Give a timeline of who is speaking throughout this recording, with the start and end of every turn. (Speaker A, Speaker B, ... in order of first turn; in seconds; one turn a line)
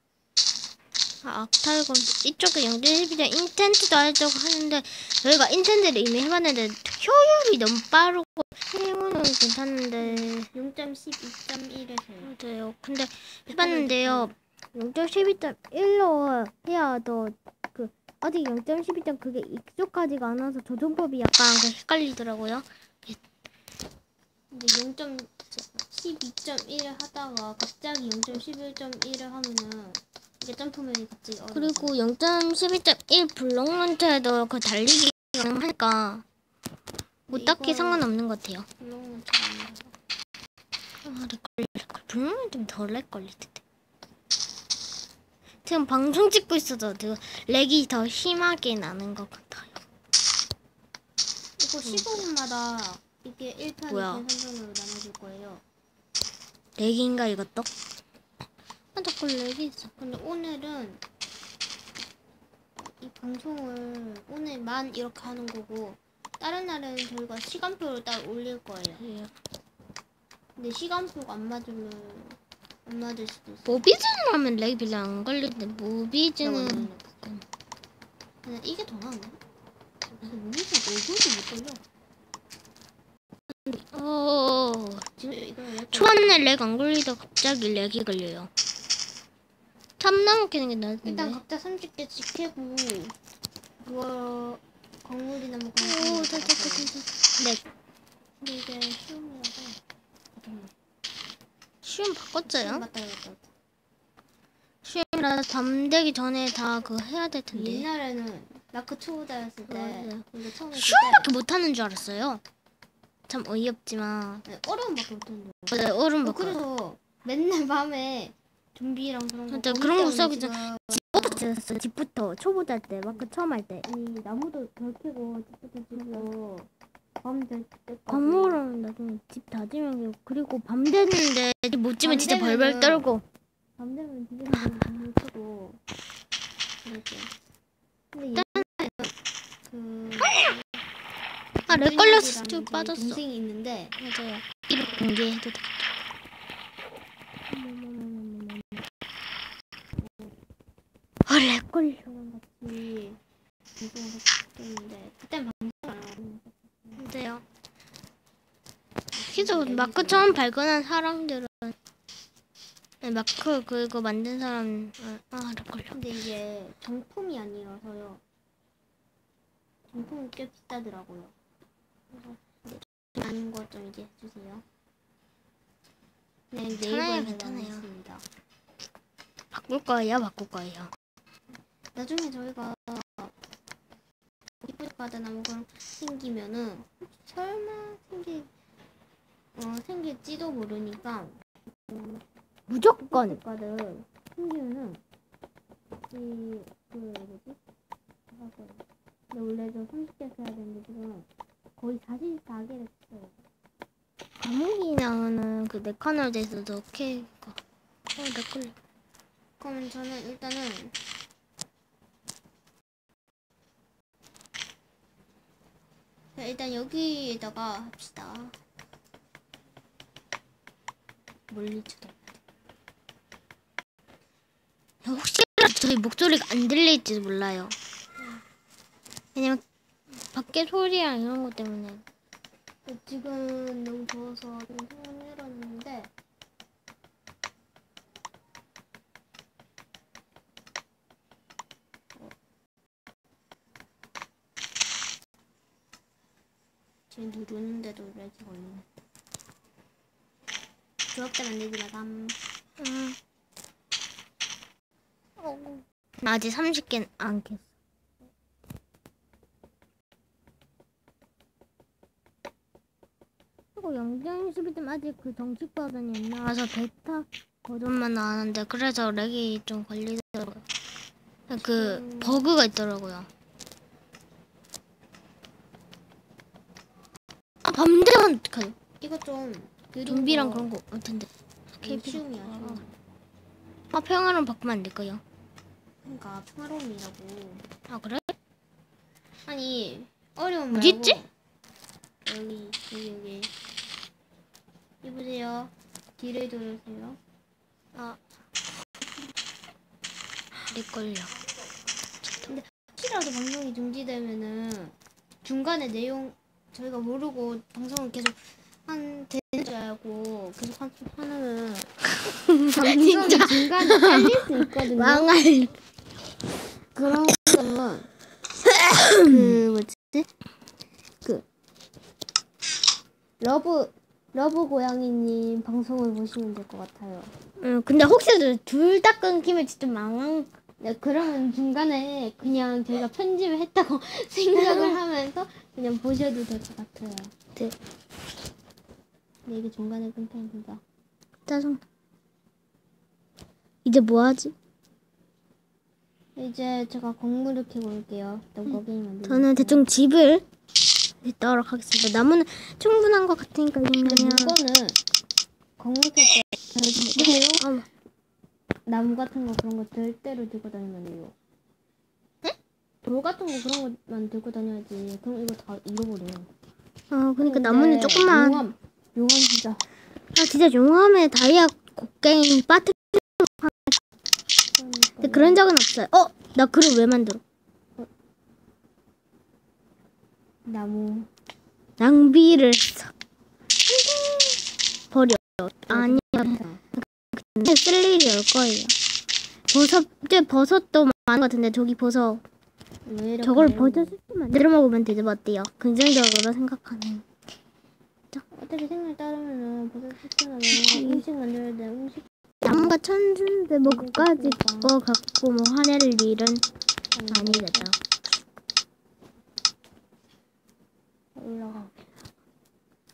Speaker A: 1.2-10.5
Speaker B: 10.0-12.3
Speaker A: 12.2-23.2
Speaker B: 13.5-14.3
Speaker B: 24.5-25.3
Speaker B: 25.9-31.9
Speaker A: 31.5-36.2
Speaker A: 37.3-38.7
Speaker B: 37.3-38.1
Speaker B: 38.8-39.9
Speaker A: 41.0-43.6
Speaker A: 45.6-49.8
Speaker B: 51.6-55.6
Speaker A: 51.9-52.3
Speaker A: 53.9-54.3
Speaker A: 56.8-57.7
Speaker A: 59.0-59.9
Speaker B: 60.0-61.0
Speaker B: 62.8-69.0
Speaker A: 69.0-69.3
Speaker B: 70.6-73.9
Speaker A: 73.7-77.4
Speaker B: 76.4-77.2
Speaker B: 78.4-79.4
Speaker B: 80.2-81.8
Speaker A: 83.7-85.1
Speaker B: 85.2-86.5
Speaker A: 85.9-88.5
Speaker A: 90.0-91.4
Speaker B: 91.0-93.2
Speaker B: 93.8-96.9
Speaker A: 95.8-97.6
Speaker B: 98.4-99.8
Speaker B: 100.3-100.7
Speaker A: 101.8-102.9
Speaker B: 102.5-103.5
Speaker A: 104.8-107.9
Speaker B: 107.5-111.3
Speaker A: 109.7-112.4
Speaker A: 113.3-114.5
Speaker B: 114.5-121.4
Speaker A: 115.7-116.6
Speaker A: 119.5-123.9
Speaker B: 123.8-126.7
Speaker A: 126.0-126.3
Speaker B: 127.2-128.6
Speaker A: 128.1-133.2
Speaker B: 132.0-133.1
Speaker B: 133.8-135.8
Speaker B: 136.8-137.3
Speaker B: 138.1-139.1
Speaker A: 138.4-138.7
Speaker B: 139.7-140.7
Speaker B: 141.7-143.9
Speaker A: 141.7-143.2
Speaker A: 144.0-145.8
Speaker A: 147.5-148.8
Speaker B: 150.0-150.3
Speaker A: 151.3-152.1
Speaker B: 152.1-153.2
Speaker B: 153.8-157.0
Speaker A: 157.0-157.4
Speaker B: 159.1-160.4
Speaker A: 159.3-161.8
Speaker A: 163.0-166.0
Speaker B: 165.9-168.2
Speaker B: 169.9-171.3
Speaker B: 172.1-174.6
Speaker B: 176.5-178.2
Speaker A: 176.8-177.9
Speaker A: 179.5-180.9
Speaker B: 181.9-183.3
Speaker B: 184.6-188.5
Speaker B: 189.6-192.2
Speaker A: 192.7-193.4
Speaker B: 193.0-195.0
Speaker B: 196.1-197.6
Speaker B: 198.3-203.4
Speaker A: 204.4-207.6
Speaker A: 208.2-208.8
Speaker B: 209.6-211.0
Speaker B: 216.4-218.6
Speaker B: 221.5-222.3
Speaker A: 225.0-227.8
Speaker A: 229.3-229.6
Speaker A: 230.3-232.0
Speaker B: 232.8-236.1
Speaker B: 247.1-248.8
Speaker B: 251.1-252.4
Speaker A: 252.8-253.2
Speaker A: 255.4-257.7
Speaker A: 263.8-270.6
Speaker A: 271.5-273.3
Speaker B: 271.5-272.5
Speaker A: 277.6-278.8
Speaker B: 279.0-280.7
Speaker A: 280.1-282.8
Speaker B: 281.8-282.9
Speaker A: 283.9-285.2
Speaker B: 286.0-287.6
Speaker A: 287.9-288.4
Speaker B: 289.5-291.3
Speaker A: 290.7-291.2
Speaker B: 292.2-293.5
Speaker B: 295.0-297.2
Speaker A: 300.7-301.3
Speaker B: 302.4-311.9
Speaker A: 312.2-315.8
Speaker B: 312.6-315.3
Speaker B: 316.9-318.1
Speaker A: 318.7-319.6
Speaker B: 319.2-320.3
Speaker B: 323.4-327.3
Speaker A: 327.6-330.5
Speaker B: 330.8-337.3
Speaker A: 334.6-335.0
Speaker B: 339.5-340.8
Speaker A: 341.5-341.8
Speaker A: 343.9-344.6
Speaker B: 346.4-349.8
Speaker A: 349.2-350.5
Speaker A: 351.2-354.6
Speaker B: 354.0-355.0
Speaker B: 355.8-357.7
Speaker A: 357.0-357.9
Speaker B: 358.9-361.3
Speaker B: 363.0-366.5
Speaker A: 367.1-368.6
Speaker B: 367.4-369.8
Speaker A: 370.4-374.0
Speaker B: 374.8-375.6
Speaker A: 375.2-377.4
Speaker B: 380.6-381.3
Speaker A: 382.0-383.1
Speaker A: 383.9-388.9
Speaker B: 385.9-386.8
Speaker A: 389.7-392.4
Speaker B: 393.1-394.1
Speaker A: 393.4-397.3
Speaker B: 398.5-402.9
Speaker A: 400.7-401.2
Speaker A: 402.6-406.6
Speaker B: 403.8-404.9
Speaker B: 407.1-407.9
Speaker A: 407.3-408.0
Speaker B: 411.4-411.9